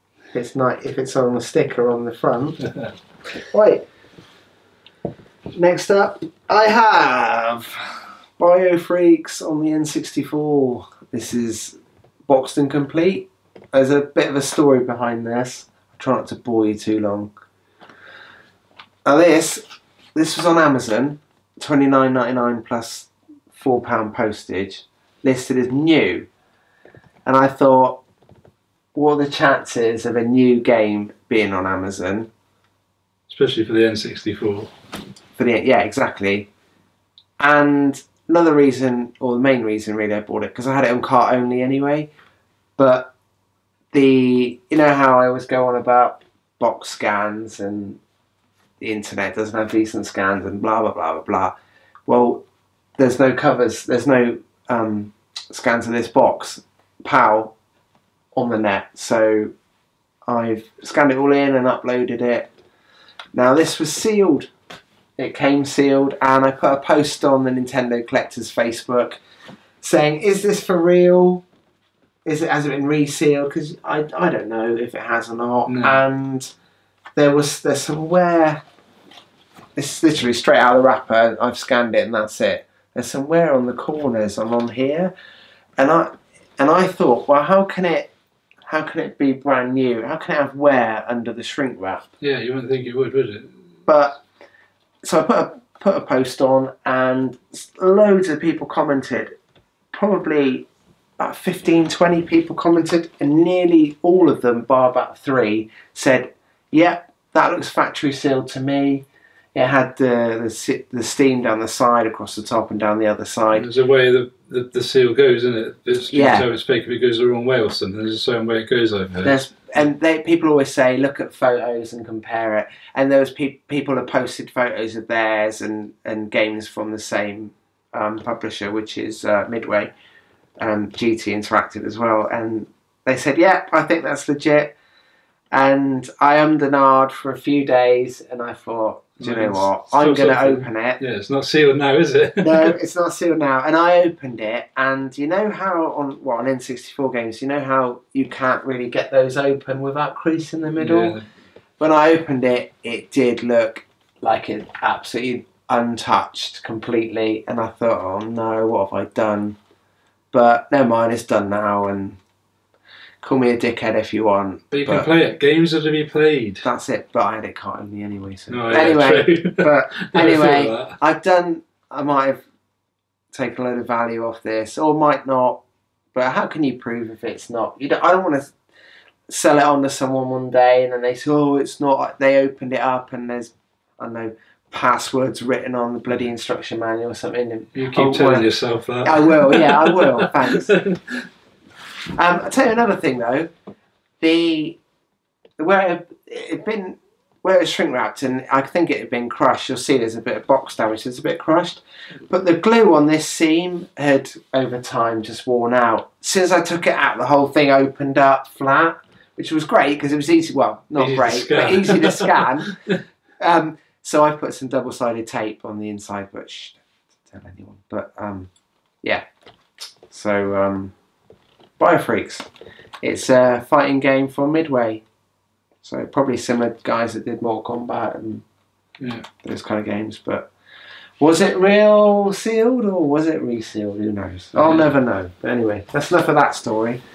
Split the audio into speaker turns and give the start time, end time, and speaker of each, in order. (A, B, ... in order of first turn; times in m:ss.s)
0:00.3-0:02.6 A
0:02.6-0:02.9 B
0:03.5-0:03.9 A
0:05.5-0:17.3 A
0:19.0-0:19.6 A
0:20.2-0:26.3 A
0:27.3-0:28.0 A
0:28.9-0:32.3 A
0:33.3-0:34.7 B
0:35.4-0:36.5 A
0:37.4-0:42.1 A
0:42.8-0:43.1 A
0:43.9-0:48.0 A
0:48.8-0:51.6 A
0:52.1-0:52.4 A
0:53.0-0:57.5 A
0:58.3-0:59.5 A
1:00.3-1:02.5 A
1:03.3-1:04.5 A
1:05.2-1:09.2 A
1:09.8-1:11.4 A
1:12.2-1:16.5 A
1:15.7-1:16.0 B
1:17.2-1:18.6 A
1:19.8-1:25.1 A
1:25.8-1:28.1 A
1:28.7-1:32.1 A
1:32.2-1:33.6 B
1:33.9-1:34.2 A
1:35.0-1:39.4 A
1:39.9-1:40.7 A
1:41.2-1:53.7 A
1:53.5-1:59.4 B
1:56.1-1:56.5 A
1:59.2-2:09.9 A
2:10.6-2:14.8 A
2:15.5-2:21.0 A
2:19.2-2:22.8 B
2:22.4-2:31.2 A
2:30.8-2:31.2 B
2:31.8-2:39.6 A
2:40.3-2:42.2 A
2:43.2-2:45.1 A
2:44.7-2:46.6 B
2:46.6-2:52.4 A
2:48.5-2:51.0 B
2:53.3-2:55.6 A
2:56.1-2:58.6 A
2:59.3-3:08.5 A
3:07.8-3:11.2 B
3:09.0-3:10.8 A
3:12.2-3:13.5 A
3:14.2-3:14.8 A
3:15.6-3:32.8 A
3:31.0-3:33.0 B
3:33.4-3:38.5 A
3:40.1-3:40.9 A
3:41.8-3:42.5 A
3:43.0-3:45.0 A
3:45.8-3:48.4 A
3:49.0-3:49.3 B
3:49.4-3:50.5 A
3:51.2-3:57.0 A
3:54.6-3:54.9 B